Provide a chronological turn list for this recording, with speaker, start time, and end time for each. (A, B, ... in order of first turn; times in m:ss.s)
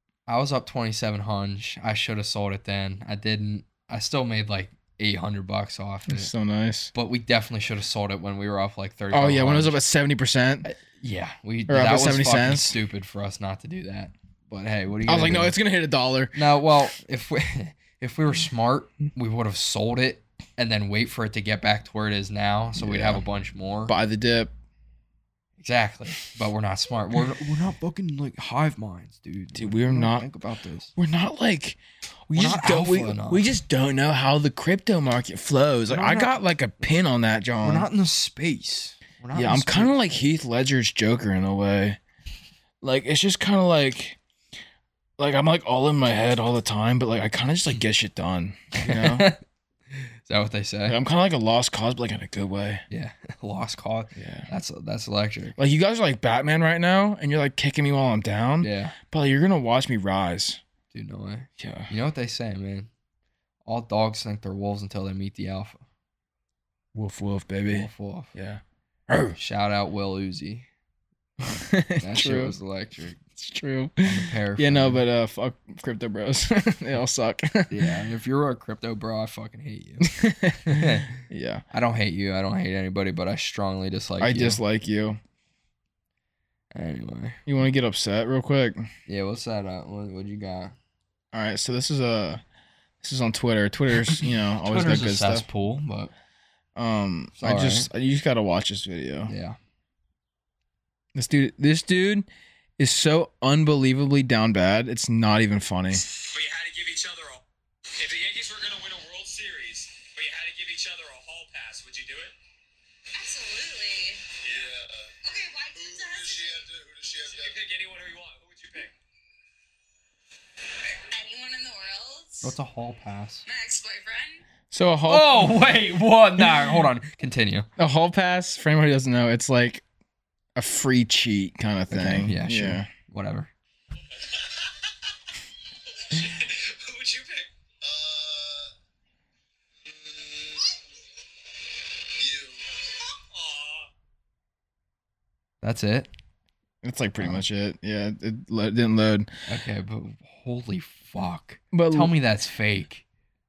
0:00.3-0:06.3 A
0:06.1-0:06.9 B
0:06.9-0:09.8 A
0:09.1-0:10.7 B
0:10.6-0:15.5 A
0:11.7-0:12.8 B
0:15.1-0:16.4 B
0:16.3-0:23.9 A
0:22.8-0:23.2 B
0:23.9-0:24.5 B
0:25.6-0:30.9 A
0:29.5-0:30.2 B
0:31.0-0:31.8 B
0:32.3-0:37.9 B
0:32.3-0:33.4 A
0:35.9-0:36.3 A
0:37.6-0:40.1 A
0:39.3-0:42.0 B
0:42.8-0:44.2 B
0:45.2-0:49.3 B
0:48.8-0:49.4 A
0:49.9-0:51.0 A
0:50.8-0:52.8 B
0:52.9-0:55.6 A
0:54.2-0:54.5 B
0:55.6-1:00.6 B
0:58.6-0:59.0 A
1:00.9-1:02.9 A
1:01.6-1:01.9 B
1:03.6-1:05.8 A
1:06.9-1:09.4 B
1:07.7-1:08.3 A
1:09.4-1:10.6 A
1:11.4-1:12.5 B
1:12.0-1:13.2 A
1:13.4-1:18.0 B
1:14.0-1:15.0 A
1:17.7-1:20.1 A
1:20.0-1:21.6 B
1:20.6-1:21.2 A
1:21.7-1:24.6 A
1:24.2-1:25.2 B
1:26.7-1:27.4 A
1:27.4-1:28.9 B
1:29.1-1:30.7 A
1:31.3-1:32.4 B
1:33.0-1:35.4 B
1:34.1-1:36.1 A
1:36.8-1:39.3 B
1:37.4-1:37.9 A
1:39.2-1:39.6 A
1:41.1-1:42.3 B
1:42.8-1:46.0 B
1:45.9-1:47.4 C
1:48.0-1:52.3 C
1:53.1-1:54.2 D
1:54.4-1:55.0 C
1:55.2-1:56.7 D
1:55.9-1:58.9 C
2:01.1-2:02.5 D
2:02.4-2:03.4 A
2:03.4-2:04.4 D
2:04.7-2:05.6 B
2:05.1-2:07.7 A
2:06.4-2:06.8 B
2:07.8-2:09.8 B
2:10.6-2:12.9 B
2:11.9-2:13.5 A
2:14.2-2:14.9 C
2:15.9-2:18.7 C
2:19.9-2:20.8 C
2:22.2-2:23.9 C
2:25.6-2:26.1 A
2:26.8-2:29.3 B
2:29.5-2:33.0 A
2:31.7-2:32.1 B